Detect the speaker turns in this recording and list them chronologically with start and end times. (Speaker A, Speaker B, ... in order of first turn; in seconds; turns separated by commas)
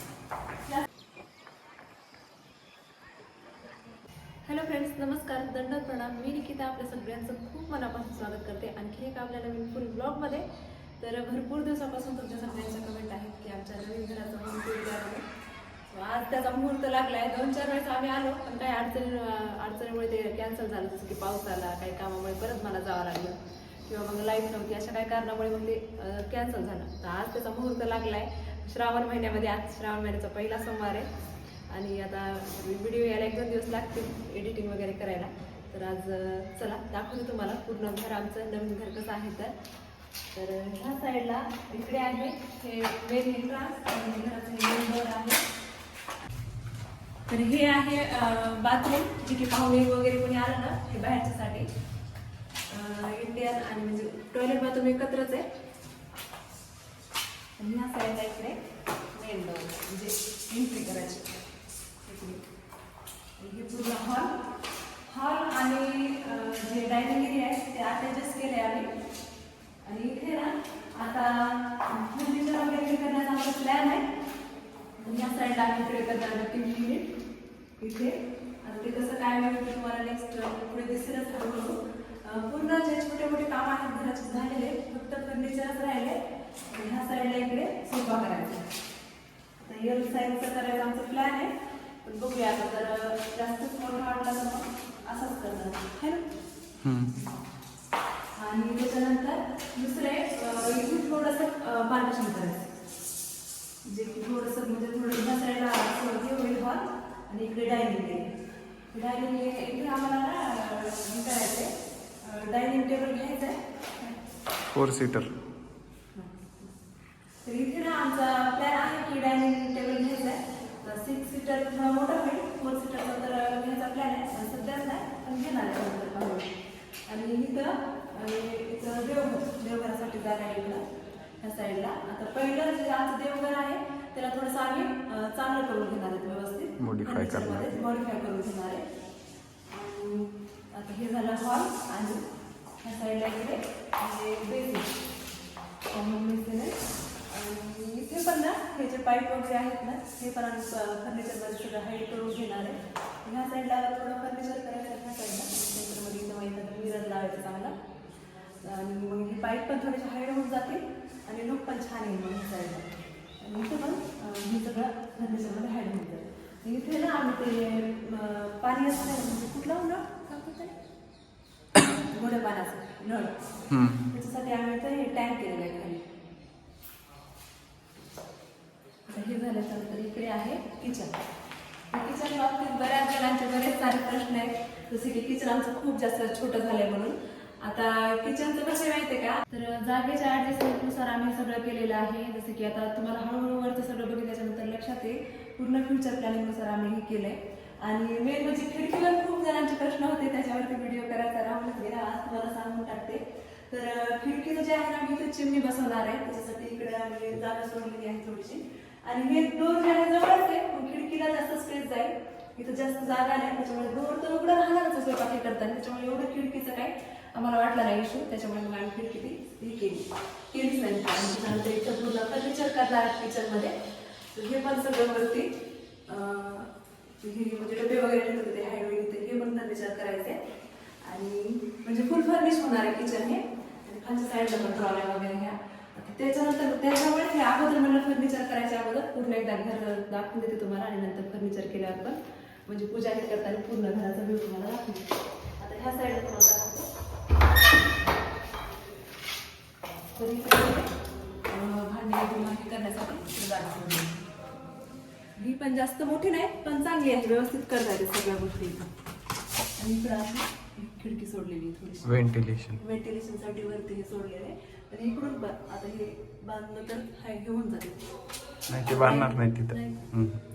Speaker A: 4.5-10.5, Speaker A: 11.0-15.3, Speaker A: 15.9-31.1, Speaker A: 31.7-39.6, Speaker A: 40.3-45.4, Speaker A: 47.3-51.7, Speaker A: 52.7-55.5, Speaker A: 57.6-58.6, Speaker A: 59.1-61.3, Speaker A: 62.0-62.5, Speaker A: 63.4-64.3, Speaker A: 65.1-68.9, Speaker A: 69.8-74.1, Speaker A: 75.0-77.1, Speaker A: 77.8-86.2, Speaker A: 86.7-88.6, Speaker A: 89.6-91.5, Speaker A: 92.0-96.2, Speaker B: 96.8-97.1, Speaker A: 98.4-102.7, Speaker A: 103.9-108.3, Speaker A: 108.9-111.7, Speaker A: 112.2-114.2, Speaker B: 114.7-115.3, Speaker A: 116.2-116.7, Speaker A: 117.4-126.5, Speaker A: 127.1-130.8, Speaker A: 131.4-138.8, Speaker B: 136.8-137.8, Speaker A: 139.7-142.2, Speaker A: 142.8-144.9, Speaker A: 145.9-157.8, Speaker A: 158.6-170.8, Speaker A: 171.8-176.2, Speaker B: 173.7-174.0, Speaker A: 179.1-181.2, Speaker A: 181.9-223.8, Speaker A: 224.3-225.6, Speaker A: 226.1-230.5, Speaker A: 231.0-246.9, Speaker A: 250.2-250.9, Speaker A: 251.5-254.2, Speaker A: 255.4-258.9, Speaker A: 259.8-262.2, Speaker B: 262.0-262.8, Speaker A: 262.8-268.0, Speaker B: 268.7-270.4, Speaker A: 268.9-270.1